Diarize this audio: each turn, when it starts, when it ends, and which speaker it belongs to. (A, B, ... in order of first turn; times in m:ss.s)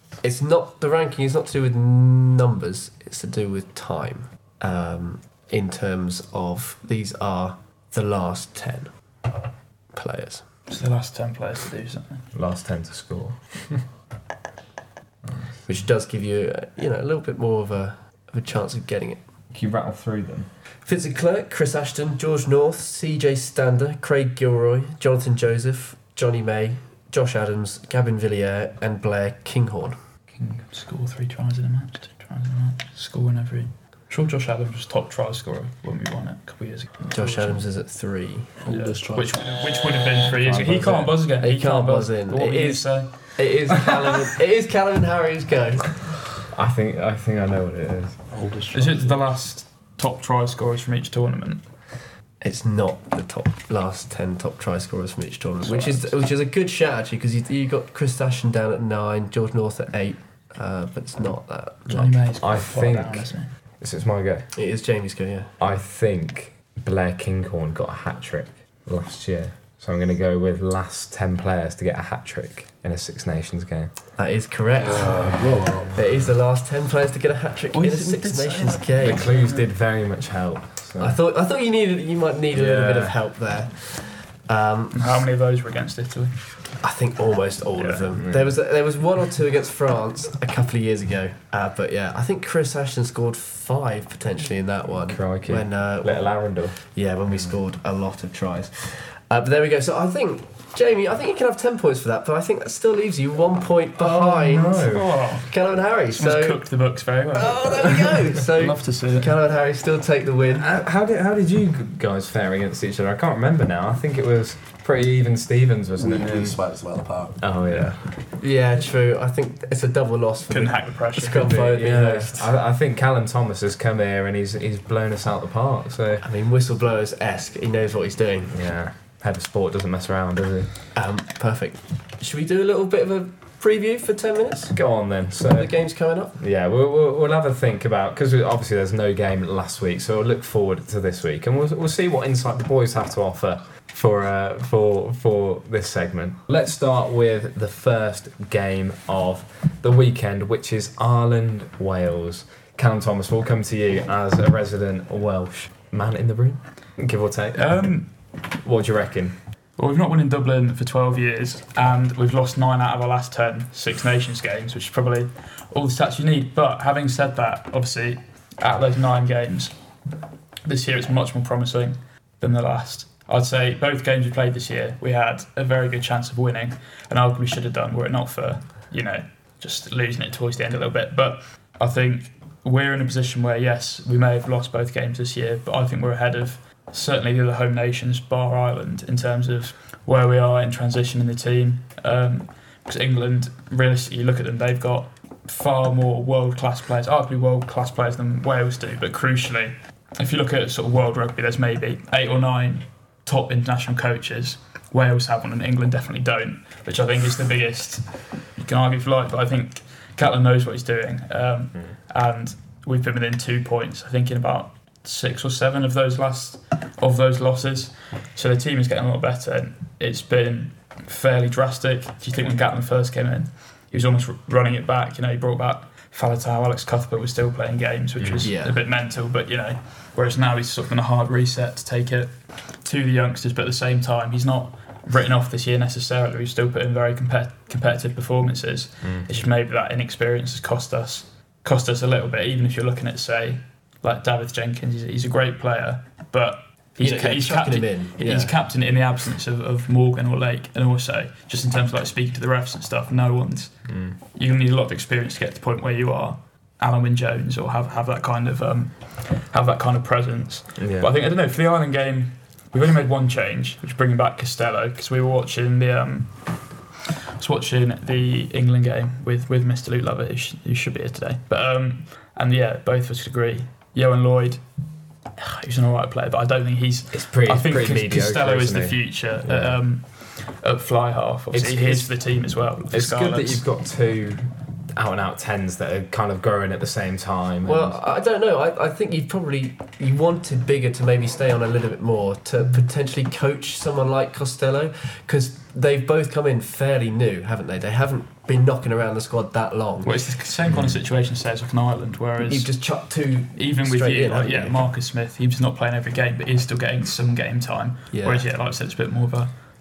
0:00.2-0:08.9 A
0:09.9-0:10.4 A
0:10.7-0:12.2 B
0:12.3-0:13.8 C
0:15.3-0:15.6 C
0:15.6-0:19.2 A
0:19.5-0:20.5 C
0:20.9-0:30.0 A
0:30.4-0:37.6 B
0:37.1-0:38.5 A
0:38.6-0:39.4 D
0:38.6-0:43.1 B
0:40.4-0:41.1 C
0:41.4-0:45.9 A
0:46.5-0:48.2 C
0:48.3-0:49.2 D
0:48.7-0:51.6 B
0:52.4-1:02.2 A
0:55.6-0:56.1 B
1:01.9-1:03.5 B
1:02.4-1:04.5 C
1:04.6-1:05.5 A
1:05.6-1:13.9 C
1:14.2-1:19.3 A
1:14.8-1:16.2 D
1:17.7-1:19.7 B
1:19.0-1:21.2 C
1:21.0-1:25.3 A
1:22.5-1:23.1 C
1:24.9-1:26.4 B
1:26.8-1:46.6 A
1:27.8-1:28.1 B
1:28.2-1:28.6 C
1:35.1-1:36.8 C
1:44.0-1:45.2 C
1:44.9-1:45.6 B
1:46.1-1:49.3 B
1:47.3-1:50.7 A
1:50.5-1:56.6 C
1:56.0-1:57.6 D
1:57.4-1:58.0 C
1:58.3-2:02.5 A
2:00.5-2:01.7 B
2:01.6-2:06.2 C
2:06.2-2:08.6 A
2:08.5-2:10.7 C
2:10.9-2:14.8 A
2:14.7-2:15.7 C
2:15.5-2:16.4 A
2:16.4-2:37.8 C
2:37.6-2:38.1 B
2:38.6-2:39.4 C
2:39.8-2:49.7 B
2:50.6-4:26.9 B
3:48.2-3:48.4 C
3:48.4-3:48.8 A
4:07.0-4:08.5 A
4:13.9-4:14.1 C
4:20.8-4:21.1 C
4:27.4-4:34.6 B
4:35.4-4:43.6 B
4:37.1-4:39.8 C
4:41.5-4:42.1 C
4:42.9-4:48.0 C
4:47.6-5:00.2 A
5:00.0-5:02.7 B
5:00.6-5:01.0 C
5:02.4-5:04.9 A
5:03.6-5:09.5 B
5:08.1-5:08.4 A